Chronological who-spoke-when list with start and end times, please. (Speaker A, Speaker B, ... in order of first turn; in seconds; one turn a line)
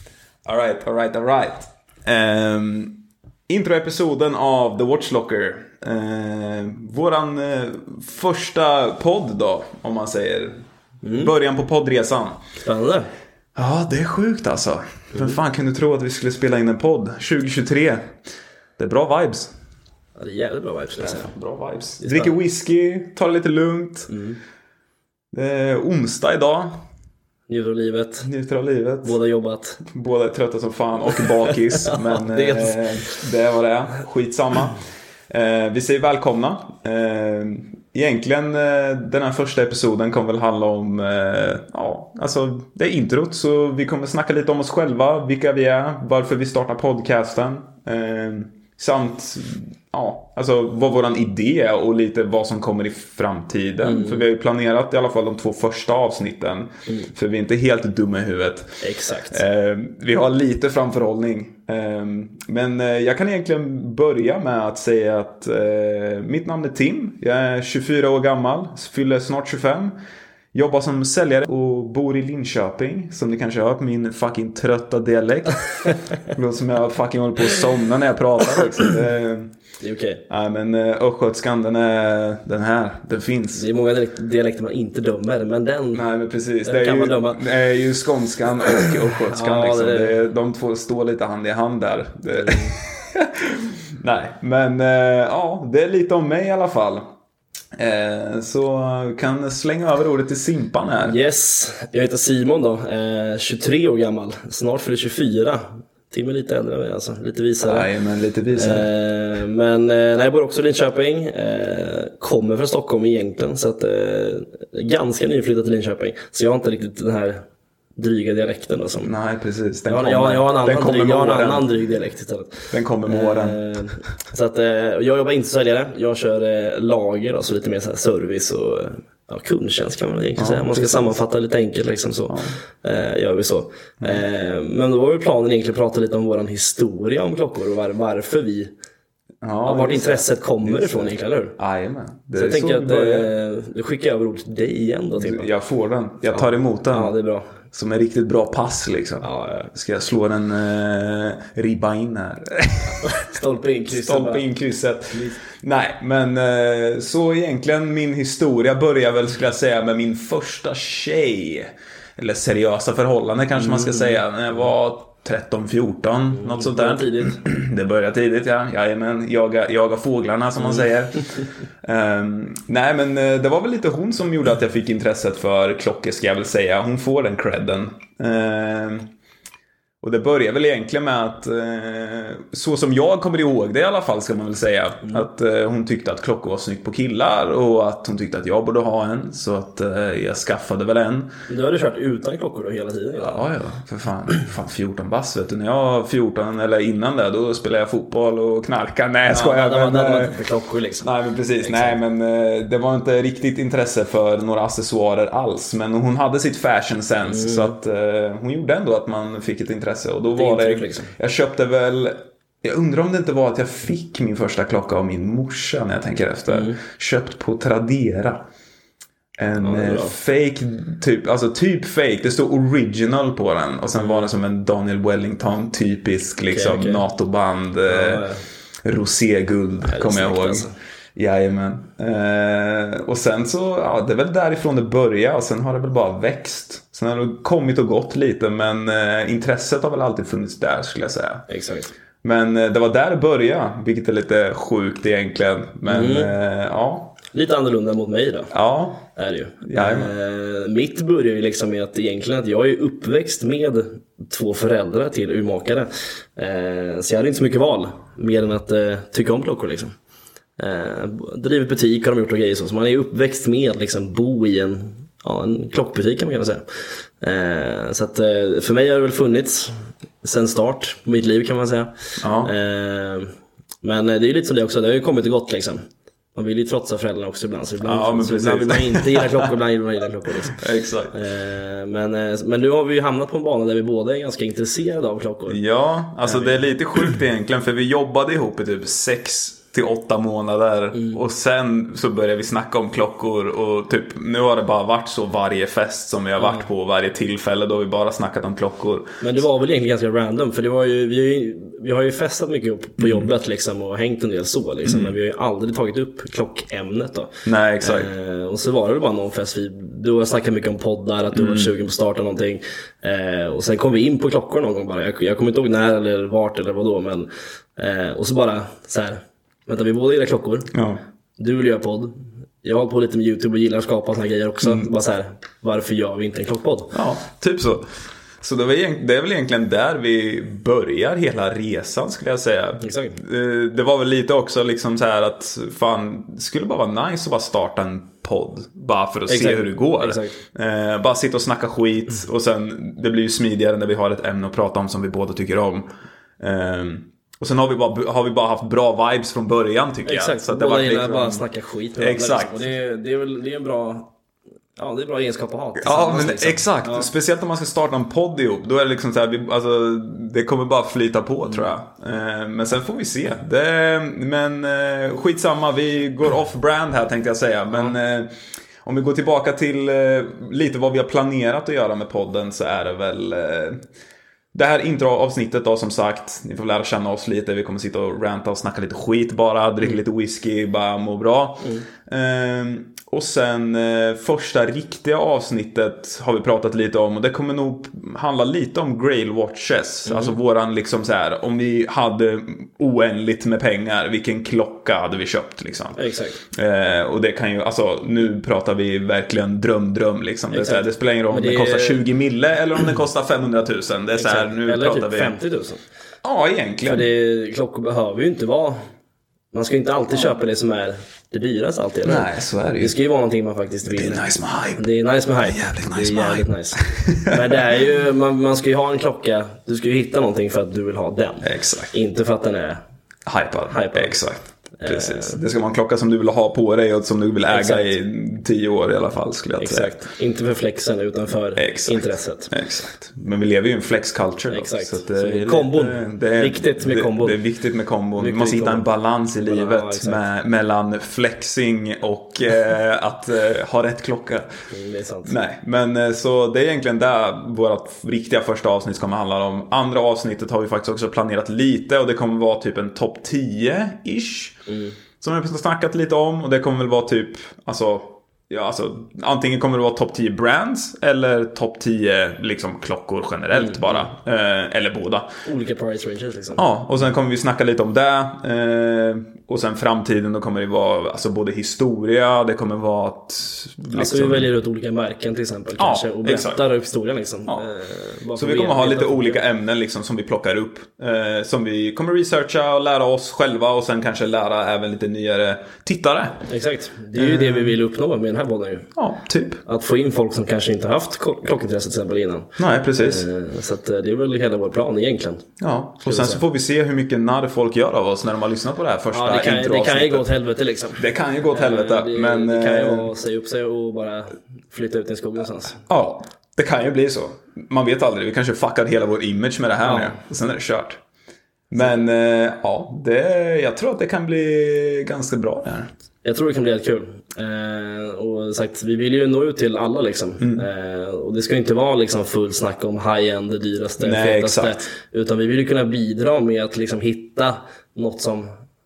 Speaker A: 0.5-12.4
Speaker B: 11.0-11.3
Speaker B: 12.6-13.1
Speaker A: 13.6-18.1
Speaker A: 18.8-19.5
Speaker B: 20.1-21.3
Speaker A: 21.0-24.1
Speaker B: 22.0-22.3
Speaker B: 24.1-24.4
Speaker A: 25.3-26.8
Speaker B: 27.5-28.2
Speaker A: 28.2-29.2
Speaker B: 29.0-29.8
Speaker A: 29.9-69.9
Speaker B: 31.1-32.9
Speaker B: 53.8-54.2
Speaker B: 58.8-59.4
Speaker A: 70.5-79.5
Speaker B: 79.8-80.2
Speaker A: 80.3-83.7
Speaker B: 83.5-86.0
Speaker A: 85.9-97.1
Speaker B: 86.6-87.4
Speaker B: 88.7-90.2
Speaker B: 92.3-92.7
Speaker A: 97.7-101.2
Speaker B: 101.0-107.9
Speaker A: 107.6-108.9
Speaker B: 108.5-117.4
Speaker B: 118.0-119.1
Speaker A: 119.0-121.7
Speaker B: 119.9-138.7
Speaker A: 122.7-123.7
Speaker A: 130.4-131.2
Speaker A: 132.3-132.6
Speaker A: 134.0-134.2
Speaker A: 139.4-143.3
Speaker B: 139.6-141.6
Speaker B: 142.3-145.5
Speaker A: 145.2-147.1
Speaker B: 146.3-147.6
Speaker A: 147.7-153.3
Speaker B: 149.2-149.7
Speaker B: 153.0-154.4
Speaker A: 153.9-179.1
Speaker B: 155.1-155.4
Speaker B: 163.6-164.2
Speaker B: 166.3-167.4
Speaker B: 170.6-170.9
Speaker A: 180.0-191.3
Speaker B: 191.5-193.4
Speaker A: 193.2-200.3
Speaker B: 199.3-201.1
Speaker A: 201.0-218.4
Speaker B: 201.6-202.0
Speaker B: 207.3-207.7
Speaker B: 210.3-211.1
Speaker B: 216.5-216.8
Speaker A: 219.4-228.2
Speaker B: 219.6-220.1
Speaker B: 224.0-224.3
Speaker B: 226.5-227.0
Speaker B: 227.9-228.4
Speaker A: 228.8-241.5
Speaker B: 229.8-230.7
Speaker B: 241.5-241.9
Speaker A: 242.2-247.2
Speaker B: 245.8-246.3
Speaker B: 247.2-248.5
Speaker A: 248.5-249.1
Speaker B: 249.1-259.9
Speaker A: 249.6-250.1
Speaker B: 260.6-266.6
Speaker B: 267.2-273.3
Speaker A: 272.2-272.5
Speaker B: 273.8-285.6
Speaker A: 277.8-279.5
Speaker A: 280.5-281.1
Speaker A: 285.5-299.3
Speaker B: 286.2-286.6
Speaker B: 296.4-296.6
Speaker B: 299.2-320.7
Speaker A: 303.0-303.3
Speaker A: 304.8-305.1
Speaker A: 307.4-308.1
Speaker A: 311.3-311.7
Speaker A: 320.7-321.0
Speaker B: 321.4-326.9
Speaker A: 324.6-324.9
Speaker A: 326.9-327.9
Speaker A: 328.4-345.9
Speaker B: 332.8-333.1
Speaker B: 339.3-340.4
Speaker A: 346.4-351.4
Speaker B: 350.0-354.1
Speaker A: 352.0-352.6
Speaker B: 354.8-357.1
Speaker A: 355.8-368.3
Speaker A: 368.8-373.8
Speaker A: 374.5-405.4
Speaker B: 390.1-390.4
Speaker B: 395.9-396.4
Speaker B: 400.5-402.0
Speaker B: 404.1-405.8
Speaker A: 406.2-407.1
Speaker B: 406.8-408.8
Speaker B: 409.5-412.3
Speaker A: 412.0-412.9
Speaker B: 412.8-414.2
Speaker A: 413.8-414.8
Speaker B: 414.8-422.8
Speaker A: 415.4-417.8
Speaker A: 421.4-421.9
Speaker A: 423.2-429.9
Speaker B: 423.7-424.2
Speaker B: 424.8-425.4
Speaker B: 427.5-427.9
Speaker B: 429.6-432.5
Speaker A: 431.6-444.6
Speaker B: 434.5-437.4
Speaker B: 438.2-438.9
Speaker B: 439.4-440.2
Speaker B: 444.7-445.3
Speaker A: 445.2-454.6
Speaker B: 454.7-454.9
Speaker A: 455.2-465.3
Speaker B: 463.5-464.1
Speaker B: 465.4-466.6
Speaker A: 466.6-474.5
Speaker B: 473.9-479.4
Speaker A: 475.8-476.6
Speaker A: 478.3-486.5
Speaker B: 486.5-488.9
Speaker A: 487.1-487.8
Speaker A: 488.9-489.6
Speaker B: 489.6-495.4
Speaker A: 492.6-493.2
Speaker A: 495.6-500.3
Speaker B: 496.0-496.4
Speaker B: 499.1-505.8
Speaker A: 501.0-503.1
Speaker A: 505.9-511.0
Speaker B: 509.8-510.2
Speaker A: 511.7-515.9
Speaker B: 516.2-528.5
Speaker A: 520.4-520.6
Speaker A: 524.0-524.9